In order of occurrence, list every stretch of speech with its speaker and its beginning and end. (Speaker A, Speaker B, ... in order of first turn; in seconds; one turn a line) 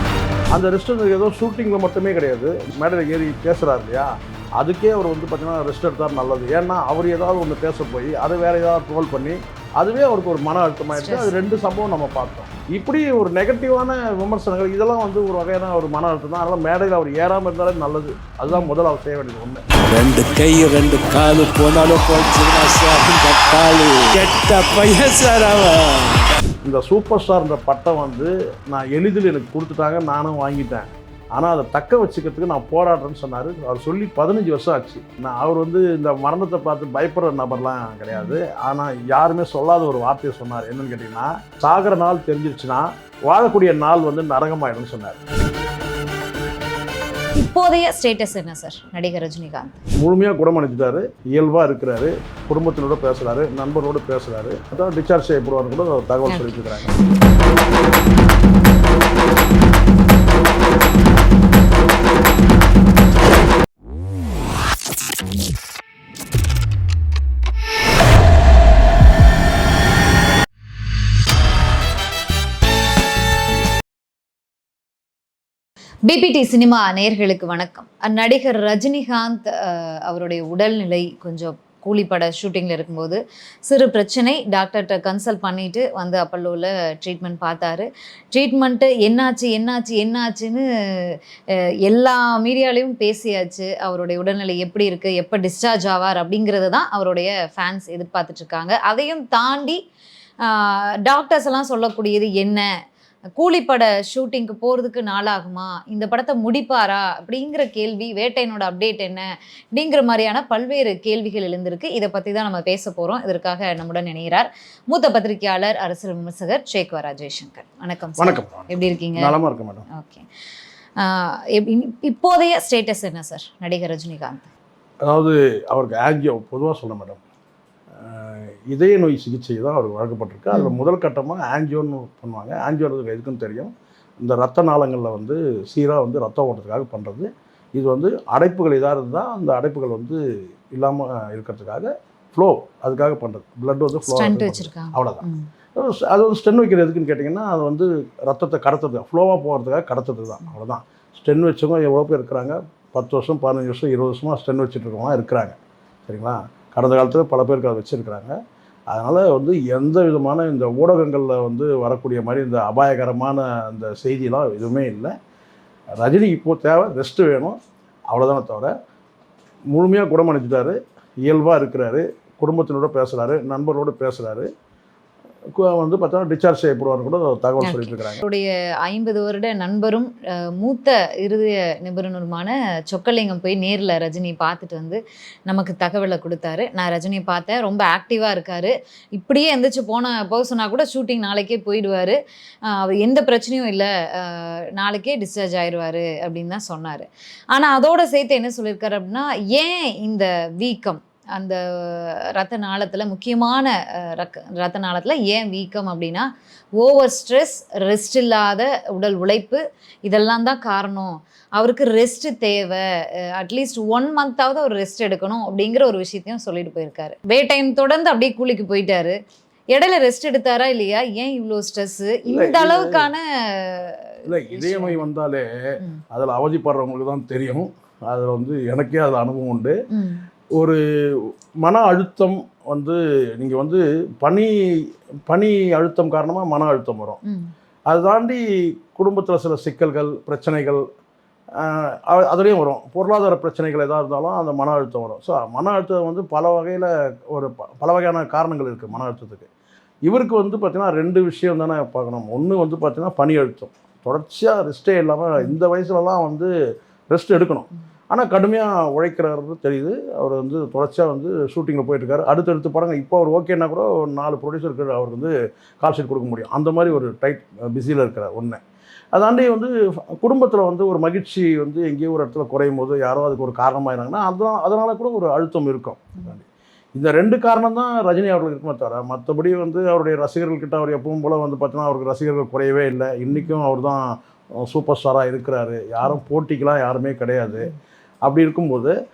Speaker A: 0.5-19.6
Speaker B: 10.9-11.3
Speaker C: 19.8-26.1
Speaker A: 26.6-45.2
Speaker B: 38.1-38.4
Speaker B: 47.4-49.8
Speaker A: 50.0-56.9
Speaker B: 56.3-56.7
Speaker B: 76.1-91.1
Speaker B: 91.9-99.8
Speaker B: 100.4-102.6
Speaker B: 103.4-119.3
Speaker A: 118.2-119.8
Speaker B: 119.9-120.2
Speaker B: 121.0-124.5
Speaker A: 125.0-127.2
Speaker A: 128.0-140.2
Speaker A: 140.7-145.2
Speaker B: 144.1-145.5
Speaker A: 145.7-158.3
Speaker A: 158.9-165.1
Speaker A: 166.0-167.6
Speaker A: 168.1-168.7
Speaker A: 169.7-174.5
Speaker A: 175.5-178.2
Speaker B: 177.6-206.3
Speaker B: 206.8-212.8
Speaker B: 213.3-219.1
Speaker B: 219.7-225.0
Speaker A: 222.3-223.1
Speaker A: 224.2-225.4
Speaker A: 226.1-229.7
Speaker B: 229.9-230.2
Speaker A: 230.6-234.5
Speaker A: 235.3-237.2
Speaker A: 237.9-240.8
Speaker A: 241.6-249.5
Speaker A: 250.1-256.5
Speaker A: 257.1-268.6
Speaker A: 269.1-276.4
Speaker A: 276.9-284.0
Speaker B: 283.3-283.6
Speaker A: 284.6-287.7
Speaker A: 288.2-288.9